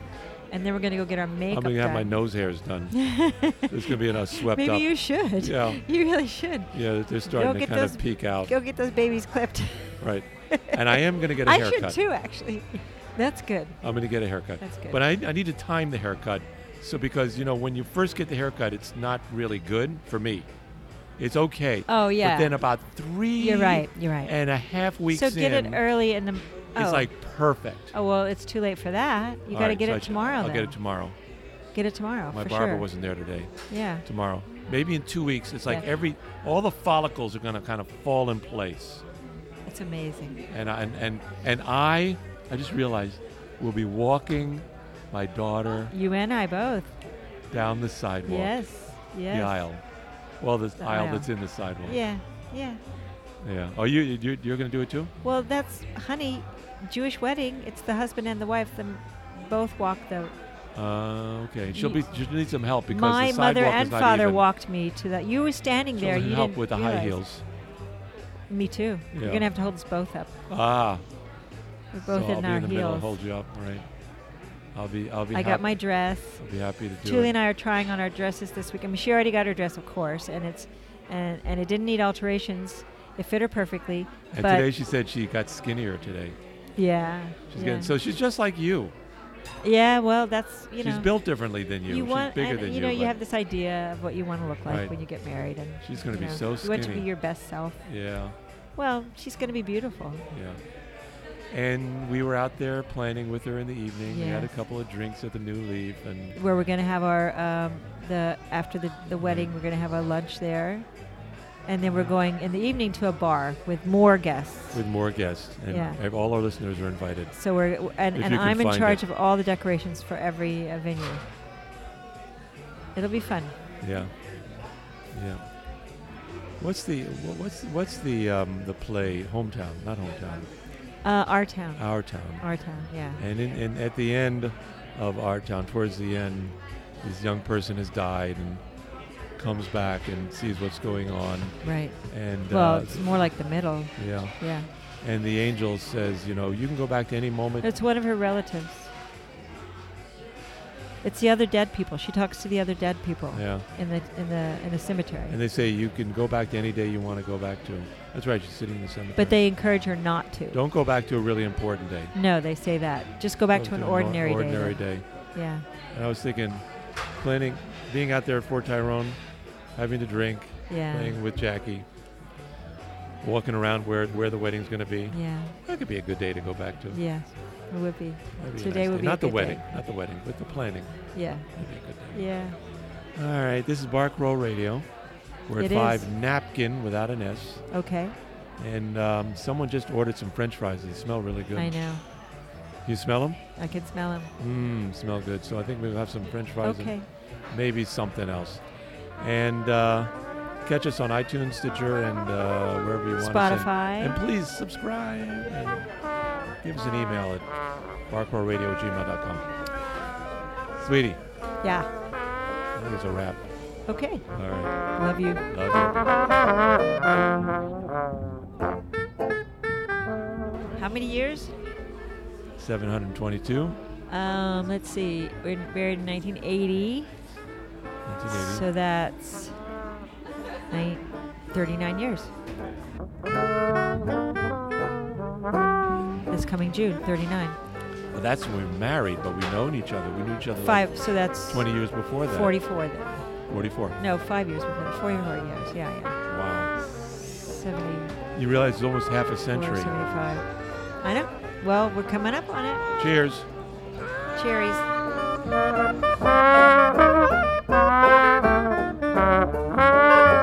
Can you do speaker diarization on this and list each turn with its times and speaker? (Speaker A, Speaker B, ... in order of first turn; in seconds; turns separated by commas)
Speaker A: 0.5-2.1, Speaker B: 1.5-3.0, Speaker A: 2.9-6.7, Speaker B: 3.6-5.8, Speaker B: 6.7-8.5, Speaker A: 7.2-10.0, Speaker B: 10.0-12.0, Speaker A: 10.5-13.8, Speaker B: 13.8-20.5, Speaker A: 14.6-15.0, Speaker B: 21.2-25.8, Speaker A: 21.9-22.6, Speaker A: 23.4-24.3, Speaker A: 25.1-27.1, Speaker B: 26.8-27.9, Speaker A: 27.9-30.8, Speaker B: 29.5-31.1, Speaker A: 31.7-32.9, Speaker B: 32.3-33.5, Speaker A: 33.7-34.0, Speaker B: 34.0-39.0, Speaker A: 39.7-40.4, Speaker B: 40.5-45.9, Speaker A: 45.9-46.9, Speaker B: 47.5-48.6, Speaker A: 48.2-49.6, Speaker B: 49.3-49.8, Speaker B: 50.4-52.0, Speaker A: 50.8-51.3, Speaker A: 51.8-52.8, Speaker B: 53.4-55.1, Speaker A: 55.2-60.3, Speaker B: 60.7-64.4, Speaker A: 61.7-62.0, Speaker A: 62.9-67.2, Speaker B: 66.0-67.4, Speaker A: 68.5-70.3, Speaker B: 69.1-69.5, Speaker B: 70.5-71.0, Speaker A: 71.9-73.2, Speaker B: 72.0-73.8, Speaker B: 74.7-75.7, Speaker A: 75.3-76.4, Speaker B: 76.4-77.3, Speaker A: 77.0-84.7, Speaker B: 84.3-86.4, Speaker A: 86.8-87.9, Speaker B: 87.5-88.9, Speaker A: 89.6-91.1, Speaker B: 90.8-93.2, Speaker A: 91.9-97.8, Speaker B: 94.7-94.9, Speaker B: 95.8-97.1, Speaker B: 97.8-98.3, Speaker A: 98.8-100.2, Speaker B: 100.3-100.6, Speaker B: 101.5-106.4, Speaker A: 104.0-104.6, Speaker A: 106.3-110.9, Speaker B: 109.2-109.5, Speaker A: 111.7-114.8, Speaker B: 114.7-117.3, Speaker A: 115.7-116.0, Speaker A: 117.3-121.2, Speaker B: 118.1-119.0, Speaker A: 123.0-123.5, Speaker B: 123.8-124.1, Speaker B: 125.1-125.4, Speaker B: 126.6-130.5, Speaker A: 131.0-131.9, Speaker B: 131.8-132.5, Speaker A: 132.4-133.2, Speaker B: 133.2-138.6, Speaker B: 139.4-141.6, Speaker A: 141.6-142.0, Speaker B: 142.1-143.2, Speaker A: 142.5-144.7, Speaker B: 144.0-144.3, Speaker B: 145.0-147.7, Speaker A: 147.6-148.9, Speaker A: 151.0-155.4, Speaker B: 153.3-153.7, Speaker B: 155.3-159.4, Speaker A: 159.2-160.6, Speaker B: 160.5-162.1, Speaker A: 162.1-164.8, Speaker B: 163.5-165.0, Speaker A: 165.3-165.6, Speaker B: 165.9-166.6, Speaker B: 167.2-169.2, Speaker B: 169.8-171.8, Speaker A: 170.7-171.2, Speaker B: 173.2-177.0, Speaker A: 175.1-175.5, Speaker A: 176.9-179.6, Speaker B: 178.4-180.9, Speaker A: 181.1-181.5, Speaker B: 181.5-182.3, Speaker A: 182.1-182.6, Speaker B: 183.2-184.9, Speaker B: 185.5-187.6, Speaker A: 185.6-186.1, Speaker A: 187.7-188.1, Speaker B: 188.6-191.8, Speaker A: 191.6-192.0, Speaker B: 192.8-193.4, Speaker A: 193.6-194.3, Speaker B: 194.4-196.9, Speaker A: 196.6-197.1, Speaker B: 197.5-198.6, Speaker B: 199.2-200.1, Speaker B: 200.6-205.9, Speaker A: 203.2-204.2, Speaker B: 206.6-207.4, Speaker B: 208.1-209.4, Speaker B: 210.8-211.2, Speaker A: 211.6-211.9, Speaker B: 212.7-213.4, Speaker A: 213.9-214.2, Speaker B: 214.3-214.7, Speaker A: 214.9-215.4, Speaker B: 215.5-216.0, Speaker A: 220.8-221.5, Speaker B: 222.6-223.8, Speaker A: 224.1-227.1, Speaker B: 228.0-228.7, Speaker A: 228.3-229.5, Speaker A: 230.7-232.3, Speaker A: 236.3-237.6, Speaker B: 238.1-242.6, Speaker A: 240.6-241.7, Speaker A: 242.3-243.2, Speaker B: 243.5-244.0, Speaker A: 244.0-246.2, Speaker B: 246.3-246.7, Speaker A: 246.8-248.1, Speaker B: 248.3-250.0, Speaker A: 249.5-250.4, Speaker A: 251.0-252.8, Speaker B: 253.0-253.5, Speaker A: 254.3-254.8